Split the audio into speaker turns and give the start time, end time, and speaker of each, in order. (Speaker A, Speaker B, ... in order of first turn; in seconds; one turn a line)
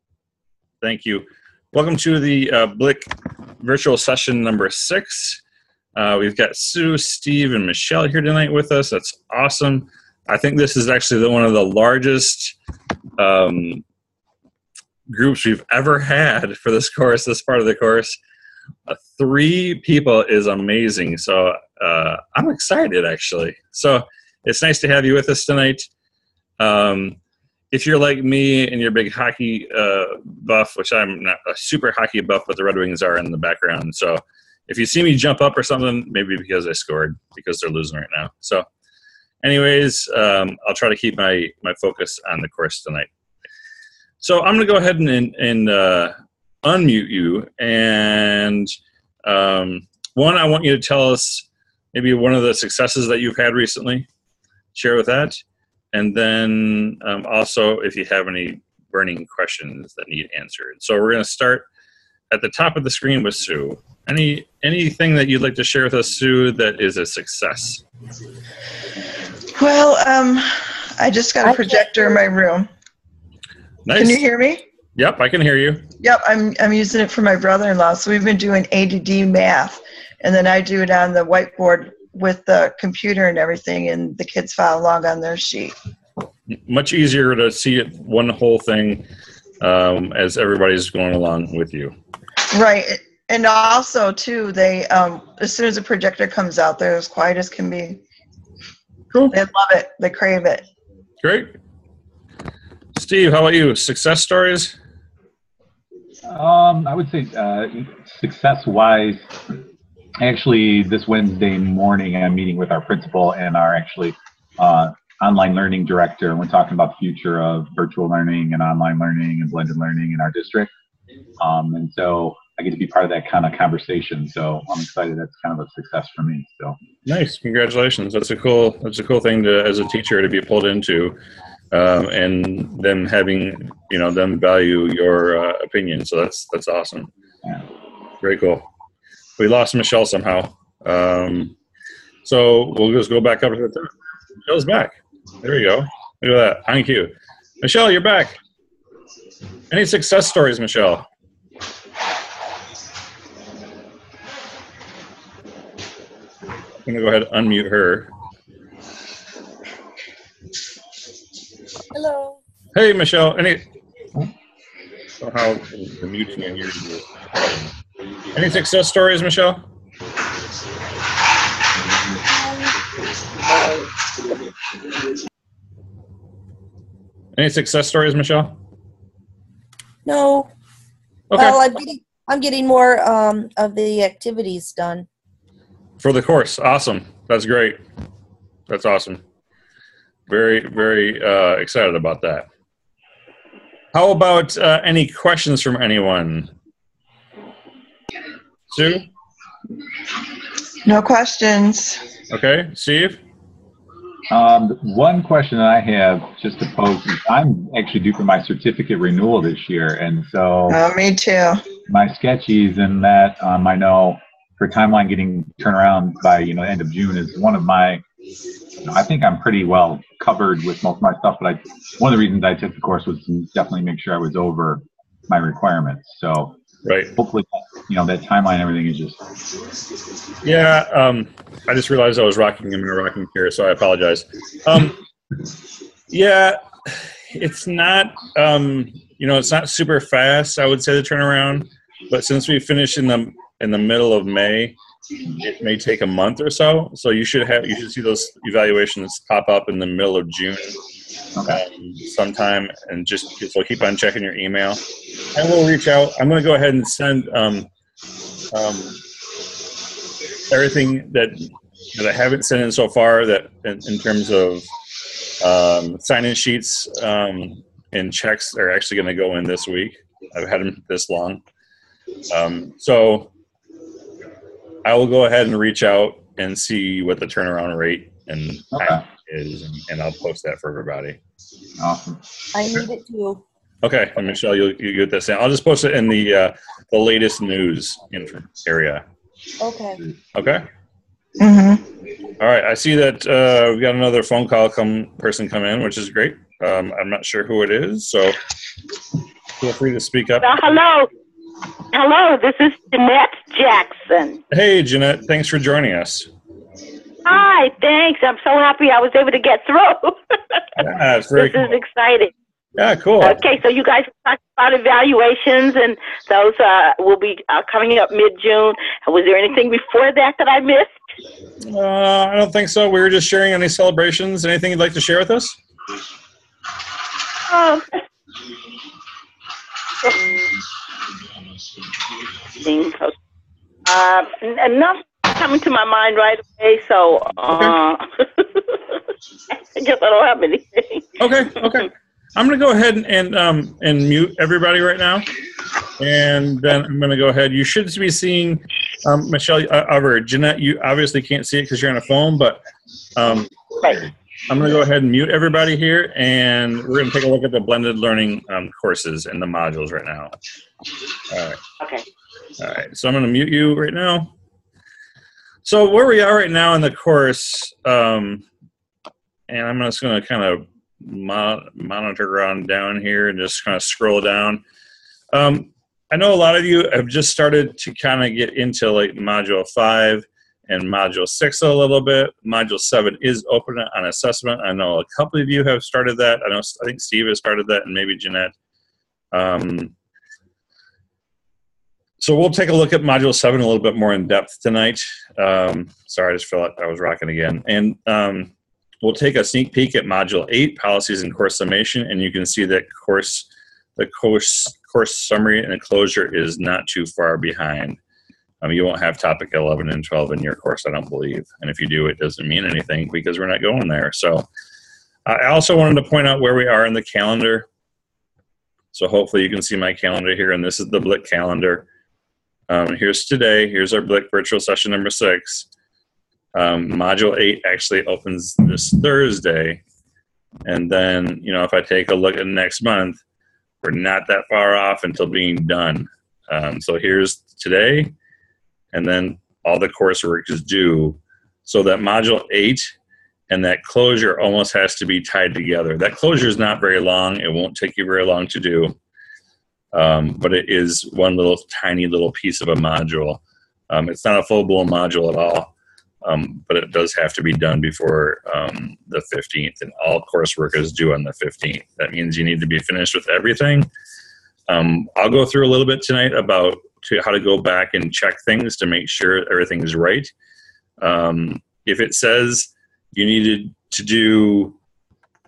Speaker A: 0.8-5.4
Speaker A: 6.0-12.5
Speaker A: 13.2-13.8
Speaker A: 15.1-18.2
Speaker A: 18.9-25.9
Speaker A: 26.6-27.2
Speaker A: 27.7-38.6
Speaker A: 39.4-43.1
Speaker A: 44.2-48.7
Speaker A: 49.2-54.1
Speaker A: 54.7-55.4
Speaker A: 55.9-61.6
Speaker A: 62.3-67.8
Speaker B: 69.5-72.7
Speaker C: 71.4-72.0
Speaker A: 73.8-74.2
Speaker B: 73.9-74.6
Speaker A: 75.0-75.8
Speaker B: 76.0-85.7
Speaker A: 86.5-89.0
Speaker A: 89.6-91.9
Speaker B: 92.5-98.0
Speaker B: 99.3-100.7
Speaker A: 101.2-101.5
Speaker A: 102.9-104.8
Speaker D: 106.2-109.5
Speaker D: 110.2-120.7
Speaker D: 121.4-126.8
Speaker A: 127.0-131.2
Speaker A: 131.7-137.1
Speaker A: 138.2-138.7
Speaker A: 139.4-141.5
Speaker A: 142.2-143.9
Speaker A: 144.4-148.4
Speaker A: 149.7-151.1
Speaker A: 156.8-158.1
Speaker C: 161.9-162.4
Speaker A: 162.7-163.7
Speaker A: 165.2-167.7
Speaker A: 168.3-169.6
Speaker C: 172.4-172.7
Speaker A: 177.3-178.6
Speaker C: 180.0-180.5
Speaker A: 181.3-181.6
Speaker C: 181.3-185.1
Speaker A: 186.0-187.8
Speaker A: 188.7-189.2
Speaker A: 190.3-192.5
Speaker A: 193.9-196.5
Speaker A: 198.7-199.1
Speaker B: 200.8-202.0
Speaker A: 202.3-203.2
Speaker D: 204.3-210.8
Speaker B: 210.7-211.7
Speaker D: 211.8-218.0
Speaker D: 218.8-226.6
Speaker A: 226.8-227.1
Speaker D: 227.1-229.2
Speaker A: 230.4-235.0
Speaker A: 236.1-244.7
Speaker A: 245.3-250.8
Speaker A: 251.4-254.8
Speaker A: 255.3-257.7
Speaker A: 258.5-259.0
Speaker A: 260.5-264.7
Speaker A: 265.4-271.4
Speaker A: 272.3-273.3
Speaker A: 274.8-281.2
Speaker D: 278.8-279.0
Speaker D: 281.8-282.2
Speaker C: 282.5-283.4
Speaker A: 283.8-289.0
Speaker C: 289.6-290.0
Speaker A: 290.3-290.6
Speaker B: 291.4-291.8
Speaker A: 292.4-298.4
Speaker A: 299.6-300.5
Speaker E: 300.4-301.1
Speaker E: 301.9-304.4
Speaker A: 304.5-306.3
Speaker E: 307.2-310.6
Speaker A: 310.8-311.7
Speaker E: 311.4-312.3
Speaker A: 312.8-313.4
Speaker E: 313.2-320.9
Speaker A: 321.6-325.6
Speaker E: 327.5-328.0
Speaker E: 330.0-330.4
Speaker E: 332.6-333.1
Speaker E: 333.9-338.8
Speaker E: 339.7-341.1
Speaker A: 341.2-345.3
Speaker A: 346.0-352.6
Speaker A: 353.1-353.5
Speaker A: 354.5-360.3
Speaker A: 361.3-361.6
Speaker A: 362.6-364.3
Speaker A: 365.6-368.4
Speaker A: 369.5-374.6
Speaker A: 375.3-388.5
Speaker A: 389.3-389.9
Speaker A: 392.2-408.0
Speaker A: 408.6-414.5
Speaker A: 415.2-417.7
Speaker A: 418.9-421.9
Speaker A: 422.7-425.7
Speaker A: 426.5-429.8
Speaker A: 430.6-433.2
Speaker A: 433.8-438.1
Speaker A: 438.9-442.9
Speaker A: 443.5-448.9
Speaker A: 449.9-455.7
Speaker A: 456.2-463.9
Speaker A: 464.7-470.3
Speaker A: 471.0-474.8